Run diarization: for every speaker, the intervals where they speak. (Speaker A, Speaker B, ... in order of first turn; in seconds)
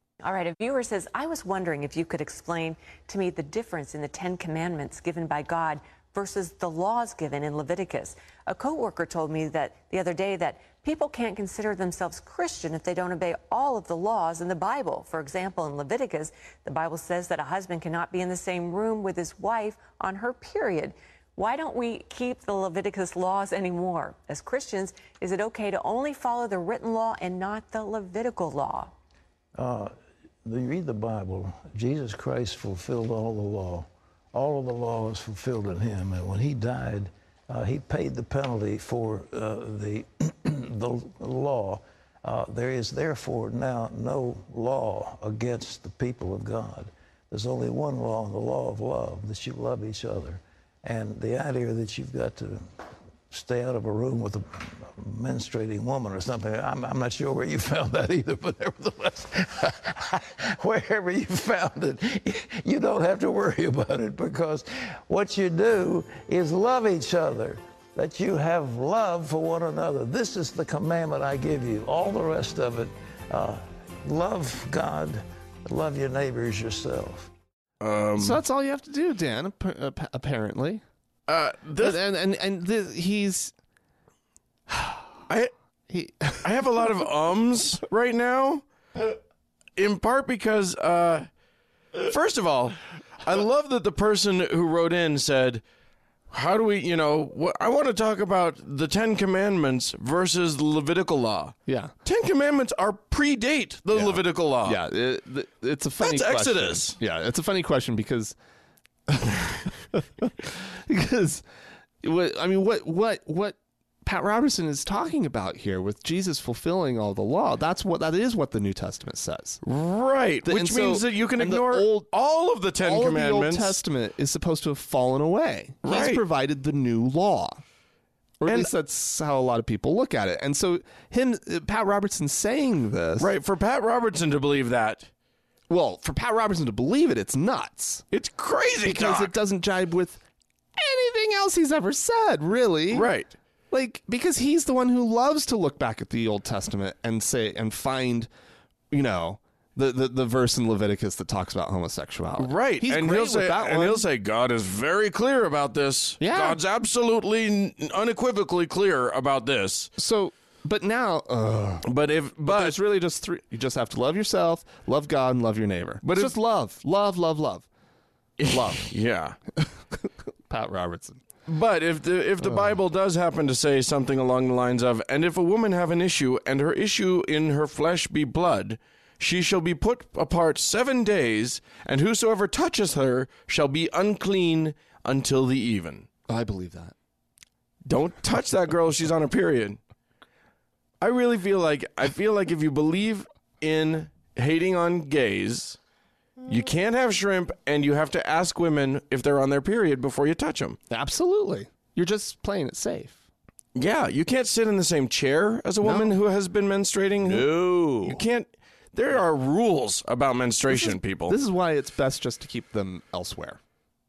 Speaker A: 0.2-28.9
Speaker B: 29.6-29.9, 30.4-52.6, 53.3-77.3
Speaker C: 77.8-78.4, 81.3-82.0, 86.4-88.6, 89.8-91.3, 92.0-95.6, 96.3-104.8, 106.0-107.0, 119.6-123.8, 125.8-126.2, 133.2-135.1, 138.1-139.3, 142.9-143.3, 152.4-159.9, 161.8-162.8, 166.0-166.3, 168.4-169.4, 171.5-186.1, 187.8-189.8, 191.0-195.8, 196.5-200.8, 203.7-207.5, 208.0-211.3
Speaker D: 78.2-80.8, 81.8-83.5, 84.7-85.0, 85.9-86.4, 101.7-101.9, 103.9-108.3, 109.1-111.4, 112.0-119.6, 120.4-122.1, 122.8-127.6, 128.4-133.3, 135.7-138.0, 138.8-140.2, 140.8-143.1, 143.7-148.3, 148.9-154.0, 156.2-156.6, 160.0-161.9, 162.4-167.7, 168.5-168.9, 169.6-171.2, 186.3-186.9, 200.9-203.2, 205.8-206.2, 207.2-208.2, 210.7-213.6